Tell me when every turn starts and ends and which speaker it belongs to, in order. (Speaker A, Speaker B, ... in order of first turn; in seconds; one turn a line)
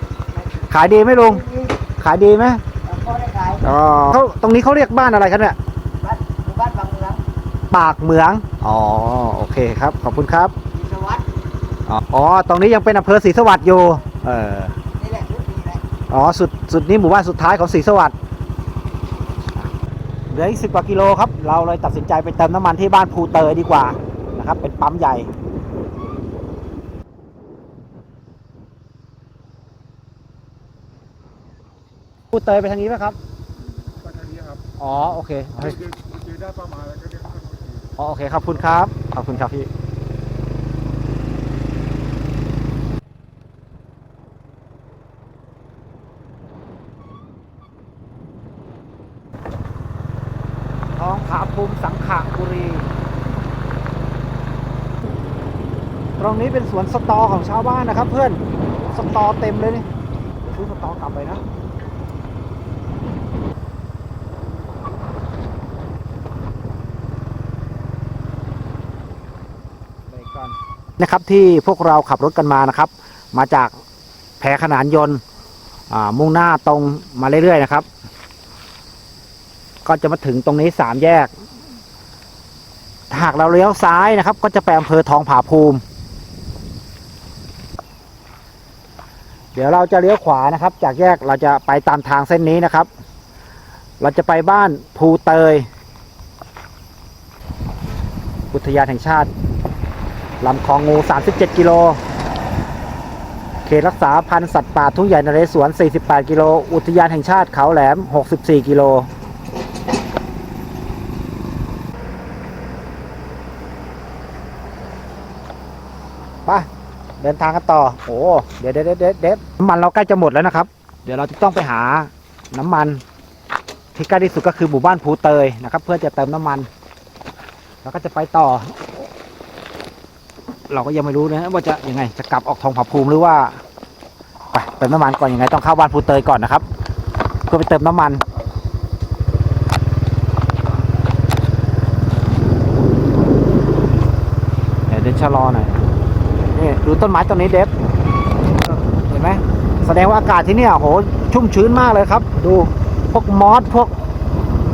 Speaker A: 0.3-1.8
Speaker B: 0.7-1.4
Speaker B: 2.0-2.6
Speaker A: 2.8-3.6
Speaker B: 3.6-5.6
Speaker A: 6.0-7.2
Speaker B: 7.7-10.5
Speaker A: 10.7-11.3
Speaker B: 11.9-14.8
Speaker A: 14.9-15.8
Speaker B: 16.1-18.1
Speaker B: 20.3-25.3
Speaker B: 32.3-33.2
Speaker C: 34.0-34.6
Speaker B: 34.8-35.8
Speaker C: 35.6-37.9
Speaker B: 38.0-39.7
Speaker B: 51.0-52.9
Speaker B: 56.2-59.9
Speaker B: 60.5-61.4
Speaker B: 70.1-73.8
Speaker B: 74.4-75.2
Speaker B: 75.9-77.9
Speaker B: 79.8-81.3
Speaker B: 83.1-85.8
Speaker B: 89.5-92.9
Speaker B: 94.0-95.7
Speaker B: 98.5-99.3
Speaker B: 100.4-102.0
Speaker B: 103.6-109.1
Speaker B: 117.2-123.0
Speaker B: 123.9-126.7
Speaker B: 127.8-128.9
Speaker B: 130.7-133.6
Speaker B: 134.5-136.7
Speaker B: 137.5-138.2
Speaker B: 144.9-145.8
Speaker B: 146.5-147.7
Speaker B: 148.6-153.9